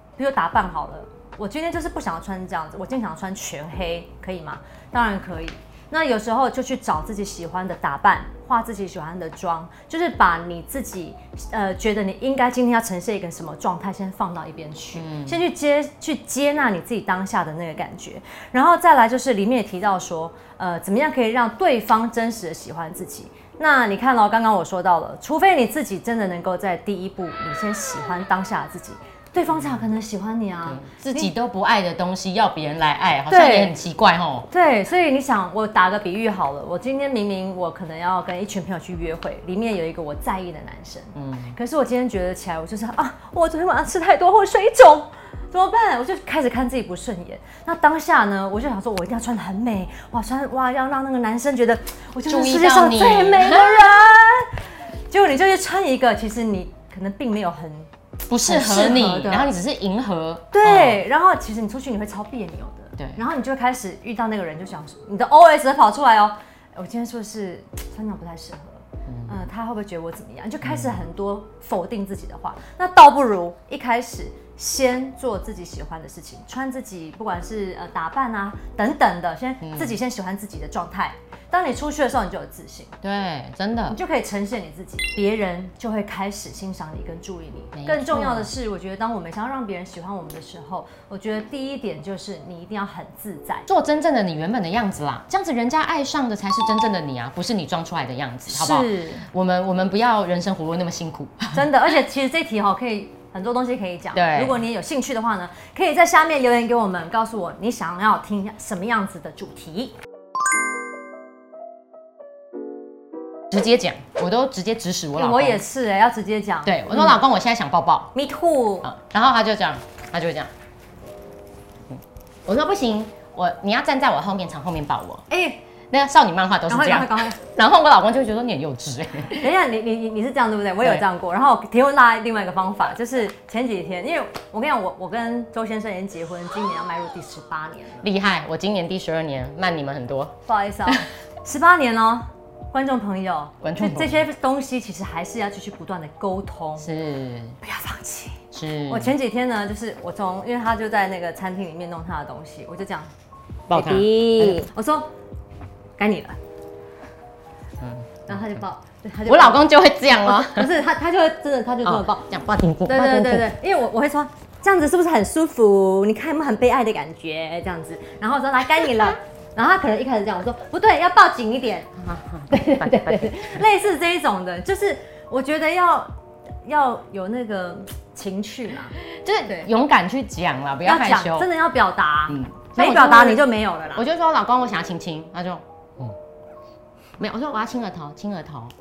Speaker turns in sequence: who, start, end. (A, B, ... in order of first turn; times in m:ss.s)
0:00.2-0:31.3 A
0:14.9-0:15.4 B
0:29.5-0:29.8 B
0:30.6-0:34.5 B
0:33.3-0:33.8 A
0:34.5-0:57.9 A
0:41.1-0:41.6 B
0:52.3-0:54.1 B
0:58.3-1:01.0 B
0:58.4-0:59.5 A
1:00.5-1:22.9 A
1:09.1-1:09.4 B
1:10.6-1:11.0 B
1:19.6-1:20.0 B
1:23.0-1:24.0 B
1:23.9-1:33.7 A
1:27.7-1:28.5 B
1:33.7-1:41.7 B
1:38.4-1:39.3 A
1:41.5-1:49.9 A
1:44.1-1:44.6 B
1:53.5-1:55.6 B
1:55.1-1:57.2 A
1:56.6-1:58.1 B
1:58.1-1:58.9 A
1:58.8-2:00.5 B
2:01.9-2:05.2 B
2:05.3-2:05.6 A
2:05.9-2:09.5 B
2:06.7-2:07.4 A
2:09.4-2:18.1 A
2:18.0-2:21.0 B
2:20.5-2:26.9 A
2:23.6-2:24.2 B
2:26.8-2:27.6 B
2:27.6-2:33.1 A
2:28.5-2:29.1 B
2:33.7-2:34.6 B
2:33.7-2:35.1 A
2:36.0-2:36.4 A
2:37.8-2:38.6 B
2:38.3-2:42.3 A
2:39.2-2:40.7 B
2:41.8-2:43.5 B
2:42.9-2:52.0 A
2:52.0-2:53.6 B
2:52.5-2:56.1 A
2:56.6-2:59.7 A
2:59.2-3:01.5 B
3:00.8-3:04.0 A
3:02.3-3:06.2 B
3:07.2-3:08.7 B